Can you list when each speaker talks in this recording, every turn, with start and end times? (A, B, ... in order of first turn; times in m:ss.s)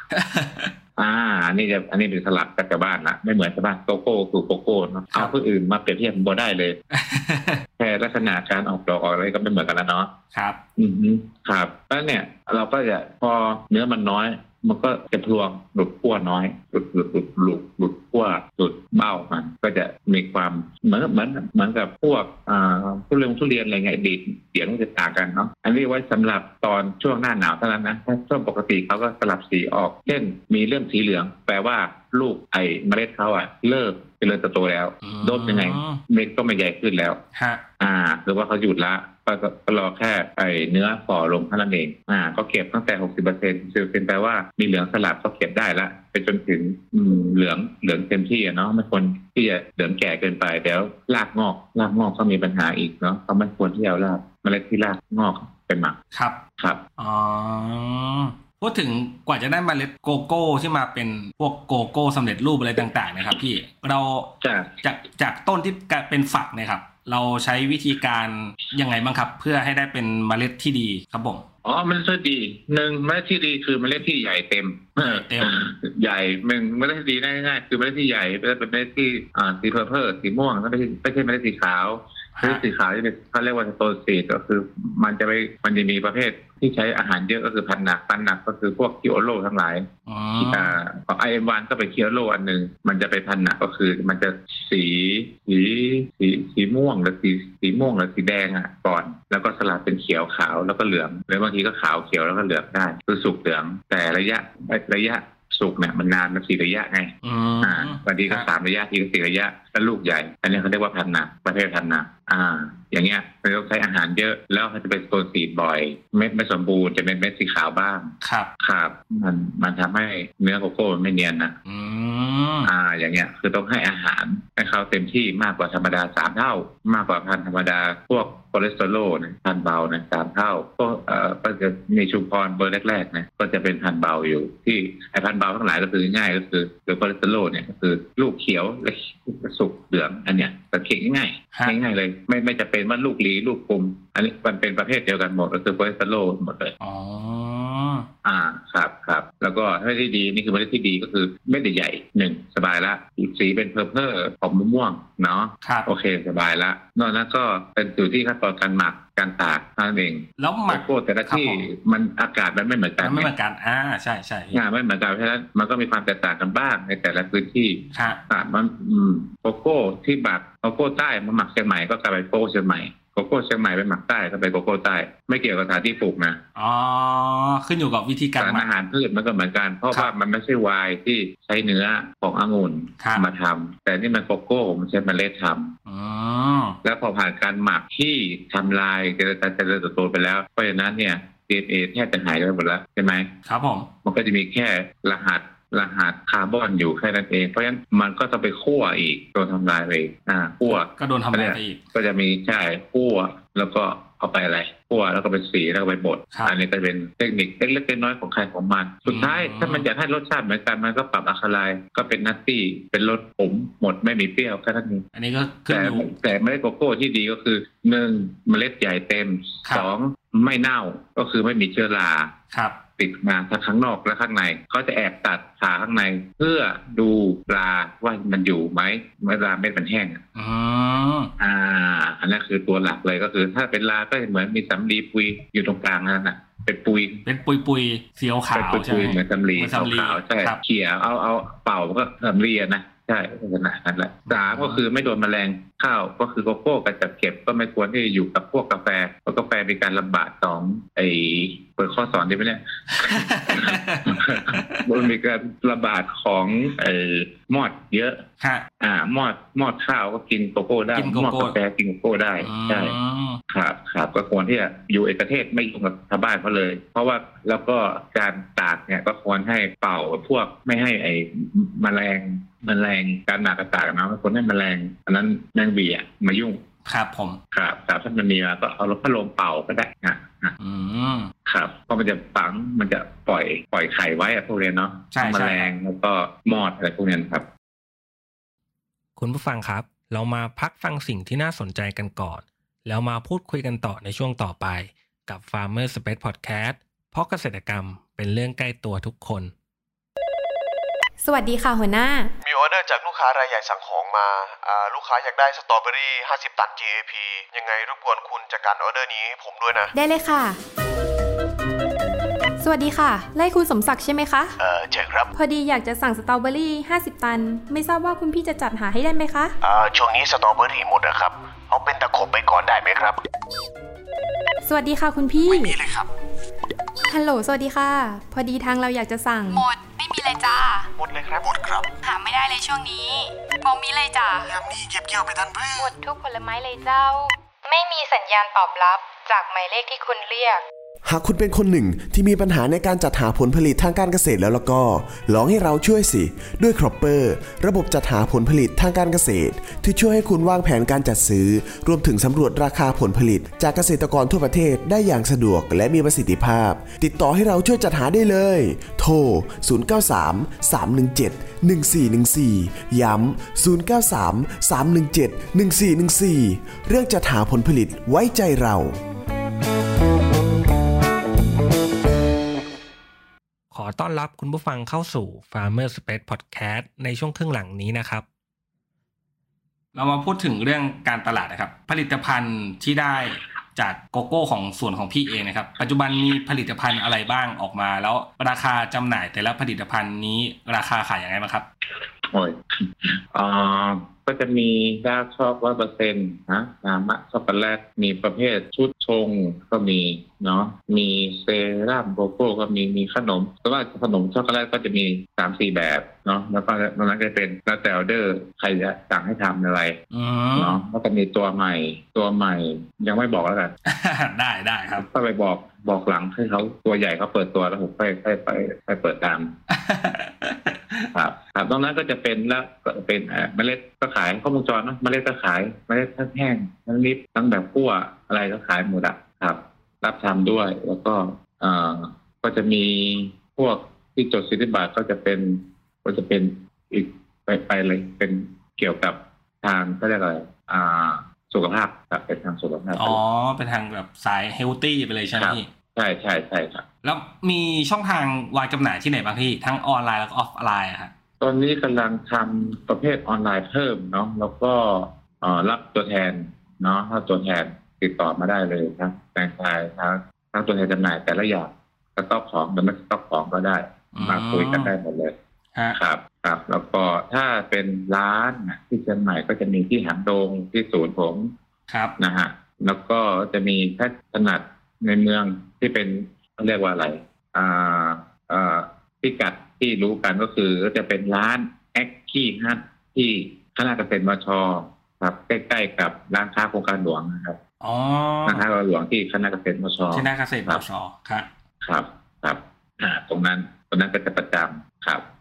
0:00.1-0:00.7 A
0:01.0-0:06.8 B
0:06.9-0:07.6 A
0:07.8-0:10.1 B
0:10.3-0:10.6 A
0:10.8-0:37.2 B
0:35.0-0:36.0 A
0:37.3-0:37.6 A
0:37.8-0:56.0 B
0:56.1-0:56.4 A
0:57.0-1:11.4 A
1:04.4-1:04.7 B
1:11.6-1:29.9 B
1:15.0-1:15.5 A
1:22.4-1:22.6 A
1:30.1-1:30.8 A
1:30.4-1:47.1 B
1:47.2-1:48.5 A
1:47.6-2:01.5 B
1:58.2-1:58.5 A
2:01.6-2:02.7 A
2:02.6-2:26.7 B
2:26.8-2:28.1 A
2:28.2-2:43.3 B
2:35.6-2:35.9 A
2:40.4-2:41.7 A
2:43.0-2:44.6 A
2:44.5-2:56.4 B
2:47.9-2:48.2 A
2:56.6-2:58.6 A
2:58.4-3:05.7 B
3:03.0-3:03.2 A
3:05.9-3:06.8 A
3:06.8-3:13.3 B
3:13.4-3:13.9 A
3:14.0-3:35.0 B
3:20.7-3:21.8 A
3:29.1-3:29.8 A
3:35.1-3:36.1 A
3:35.7-3:42.3 B
3:42.5-3:42.8 A
3:43.0-3:50.2 B
3:50.3-3:51.3 A
3:51.4-3:57.2 B
3:57.2-4:00.6 A
3:58.5-4:18.2 B
4:04.3-4:04.8 A
4:13.0-4:14.8 A
4:18.4-4:18.6 A
4:18.8-4:23.0 B
4:21.0-4:21.5 A
4:22.4-4:23.4 A
4:23.5-4:36.6 B
4:36.8-4:37.4 A
4:37.5-4:40.5 B
4:40.6-4:41.3 A
4:41.4-4:47.4 B
4:45.1-4:45.7 A
4:49.2-4:59.5 A
5:01.2-5:02.3 C
5:02.4-5:09.9 D
5:09.9-5:10.6 C
5:12.6-5:14.5 C
5:14.6-5:15.3 D
5:15.3-5:19.5 C
5:19.6-5:23.2 D
5:24.6-5:25.8 C
5:25.4-5:26.1 D
5:27.1-5:29.7 C
5:29.5-5:30.7 E
5:31.0-5:31.9 D
5:32.1-5:33.2 C
5:32.1-5:33.1 E
5:33.6-5:34.5 E
5:34.5-5:35.9 D
5:35.8-5:37.2 C
5:37.6-5:40.6 E
5:41.0-6:09.0 F
6:13.7-6:18.2 A
6:19.9-6:31.6 A
6:32.3-6:50.0 B
6:50.1-6:50.8 A
6:50.6-6:53.7 B
6:53.8-6:55.0 A
6:55.0-6:59.5 B
6:59.7-7:01.1 A
7:01.1-7:23.2 B
7:23.0-7:25.7 A
7:25.3-7:26.8 B
7:27.0-7:31.1 A
7:31.4-7:45.3 B
7:44.1-7:44.9 A
7:45.9-7:51.5 B
7:51.9-7:52.1 A
7:52.2-8:07.6 B
8:07.8-8:08.6 A
8:08.4-8:10.8 B
8:10.1-8:11.5 A
8:11.8-8:15.2 B